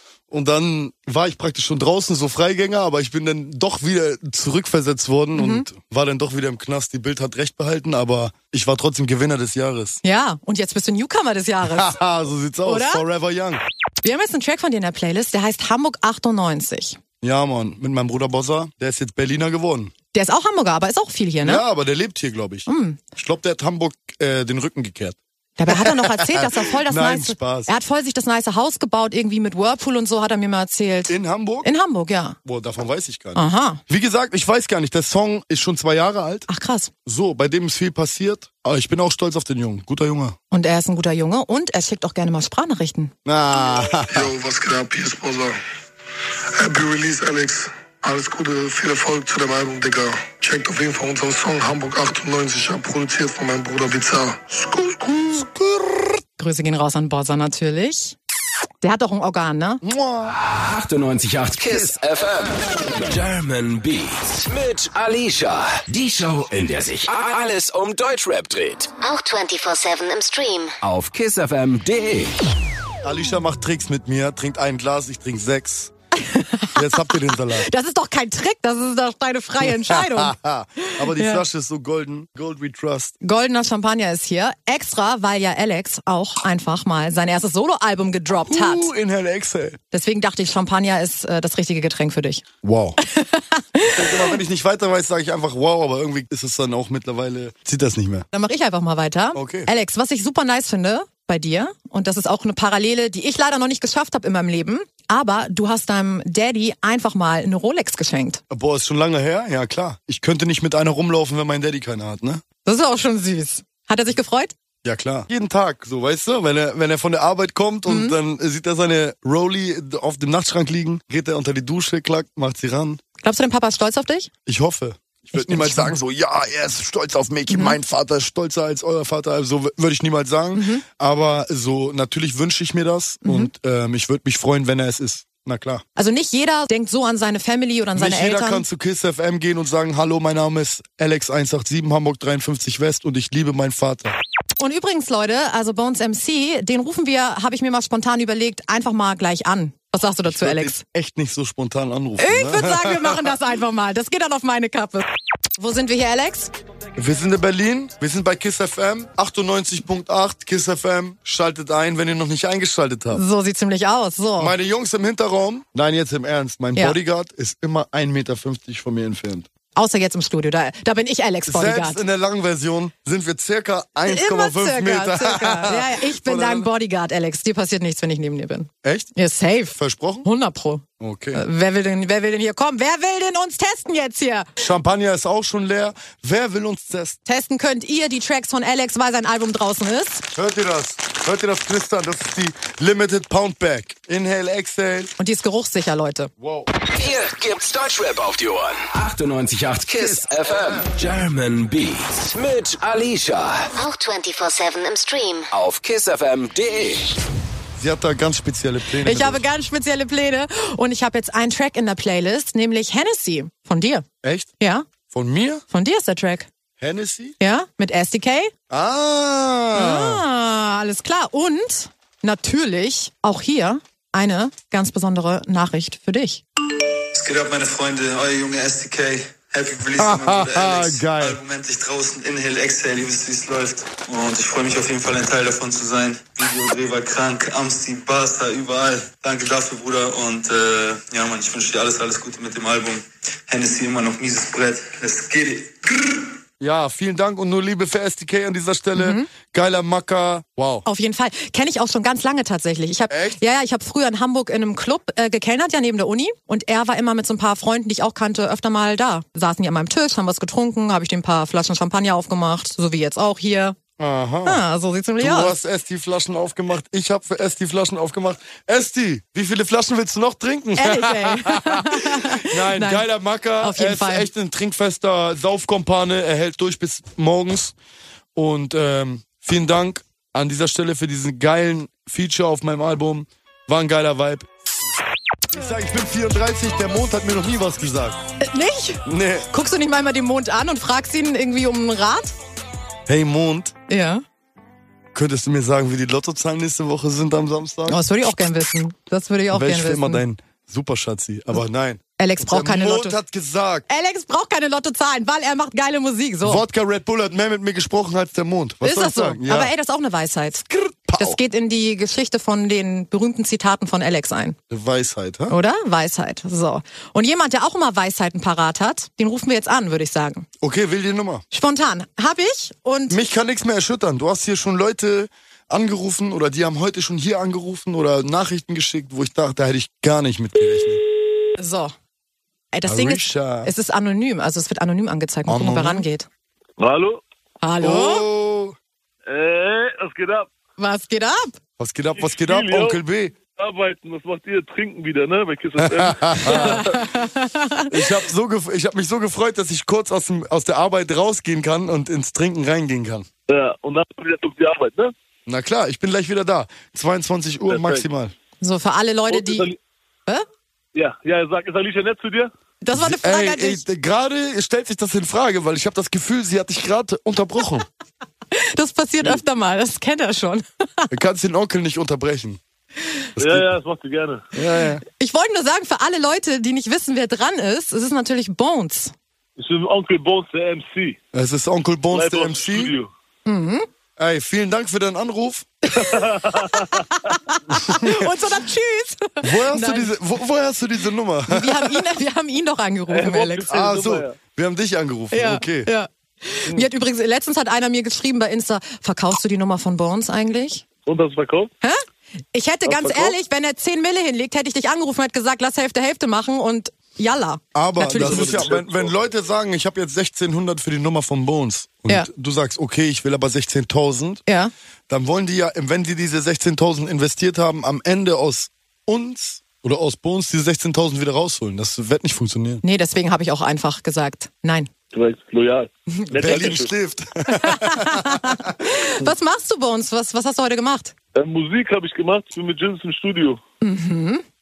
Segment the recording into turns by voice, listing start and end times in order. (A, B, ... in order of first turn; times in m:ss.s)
0:00.3-0:10.0 A
0:05.4-0:05.7 B
0:10.0-0:12.0 B
0:11.6-0:13.6 A
0:12.6-0:13.0 B
0:14.0-0:17.0 B
0:17.2-0:19.9 A
0:20.1-0:21.6 B
0:21.4-0:25.2 A
0:22.7-0:23.0 B
0:25.6-0:32.4 B
0:25.7-0:27.7 A
0:31.1-0:31.7 A
0:32.4-0:36.5 A
0:33.4-0:33.8 B
0:36.5-0:36.9 B
0:37.1-0:40.4 A
0:40.5-0:43.1 B
0:43.2-0:44.3 A
0:44.1-0:45.6 C
0:46.5-0:55.4 C
0:55.4-0:56.1 A
0:56.4-0:58.2 B
0:58.8-0:59.8 B
0:59.8-1:00.4 A
1:00.3-1:08.9 D
1:09.0-1:10.8 E
1:10.8-1:12.4 D
1:13.0-1:15.9 A
1:16.2-1:21.4 B
1:16.8-1:17.7 A
1:19.6-1:23.1 A
1:23.2-1:28.9 B
1:28.5-1:29.8 A
1:29.9-1:32.4 B
1:32.6-1:33.0 A
1:33.0-1:34.4 B
1:33.8-1:38.3 A
1:38.3-1:48.4 B
1:39.4-1:39.7 A
1:48.5-1:52.4 A
1:52.6-1:54.5 B
1:54.8-2:03.0 A
1:57.9-1:58.2 B
2:03.2-2:04.3 B
2:04.5-2:15.8 A
2:05.4-2:05.9 B
2:07.5-2:07.8 B
2:10.6-2:10.8 B
2:13.2-2:13.5 B
2:16.0-2:18.6 B
2:18.0-2:24.2 A
2:24.6-2:30.8 B
2:30.2-2:33.3 A
2:32.2-2:35.1 B
2:35.6-2:36.5 B
2:37.0-2:43.2 A
2:43.1-2:44.5 B
2:44.4-2:49.5 A
2:49.8-2:52.0 B
2:51.5-2:56.7 A
2:54.1-3:04.5 B
2:58.8-2:59.1 A
2:59.7-3:00.3 A
3:01.0-3:01.4 A
3:04.6-3:07.2 A
3:07.3-3:10.3 B
3:10.3-3:15.1 A
3:15.2-3:16.3 B
3:16.4-3:16.7 A
3:16.8-3:23.7 D
3:23.8-3:25.5 E
3:25.5-3:27.1 D
3:27.8-3:29.4 A
3:29.0-3:34.1 B
3:34.2-3:34.5 A
3:34.6-3:34.9 B
3:35.1-3:35.6 A
3:35.7-3:36.5 B
3:36.8-3:37.4 A
3:37.4-3:38.5 B
3:38.7-3:40.2 A
3:39.7-3:46.4 B
3:47.1-4:06.2 F
3:50.0-3:51.4 A
4:06.6-4:10.8 A
4:09.0-4:09.3 B
4:10.8-4:23.8 B
4:13.1-4:13.4 A
4:24.0-4:24.6 A
4:24.4-4:25.6 B
4:25.2-4:37.8 A
4:30.8-4:33.1 B
4:33.6-4:34.3 B
4:38.4-4:44.5 A
4:45.5-4:48.2 A
4:48.4-4:52.4 B
4:49.0-4:49.5 A
4:53.1-4:53.7 A
4:53.9-4:54.2 B
4:55.1-4:58.0 A
4:57.9-5:00.2 B
4:59.5-5:03.9 A
5:02.2-5:03.2 B
5:03.9-5:06.6 B
5:06.4-5:09.7 A
5:08.8-5:10.6 B
5:10.7-5:11.4 A
5:11.2-5:14.6 B
5:14.7-5:15.5 A
5:15.5-5:20.5 B
5:20.6-5:21.4 A
5:21.5-5:23.2 B
5:23.1-5:31.0 A
5:31.6-5:31.9 B
5:32.7-5:36.3 B
5:32.9-5:33.7 A
5:35.5-5:36.1 A
5:36.8-5:37.2 G
5:37.6-5:38.3 B
5:37.8-5:38.8 A
5:39.3-5:40.5 G
5:40.8-5:41.6 B
5:41.8-5:43.4 A
5:42.2-5:43.0 G
5:43.6-5:47.0 G
5:45.8-5:46.9 A
5:46.4-5:47.9 B
5:47.9-5:53.3 A
5:53.5-5:55.1 G
5:55.5-5:58.3 A
5:57.7-5:58.0 G
5:58.6-5:59.7 B
5:59.3-5:59.8 G
6:01.0-6:02.5 G
6:02.8-6:03.8 B
6:02.9-6:07.9 A
6:08.5-6:11.1 B
6:11.1-6:12.6 A
6:13.4-6:13.7 A
6:13.4-6:14.4 G
6:14.5-6:15.0 A
6:15.2-6:19.1 B
6:19.6-6:21.2 G
6:21.3-6:22.9 A
6:22.1-6:23.1 G
6:23.5-6:23.9 B
6:24.2-6:25.7 A
6:25.9-6:30.1 B
6:26.0-6:27.0 G
6:27.9-6:28.3 A
6:29.4-6:32.1 A
6:31.5-6:33.6 B
6:33.1-6:34.4 G
6:33.7-6:35.9 A
6:35.3-6:40.8 B
6:41.1-6:41.7 G
6:41.8-6:48.7 B
6:42.9-6:43.4 G
6:47.8-6:54.4 A
6:48.2-6:49.1 G
6:54.5-6:54.7 B
6:55.1-7:02.8 A
7:02.8-7:04.9 B
7:05.1-7:06.9 G
7:06.4-7:08.7 A
7:07.5-7:11.1 B
7:11.4-7:13.6 G
7:13.8-7:14.4 B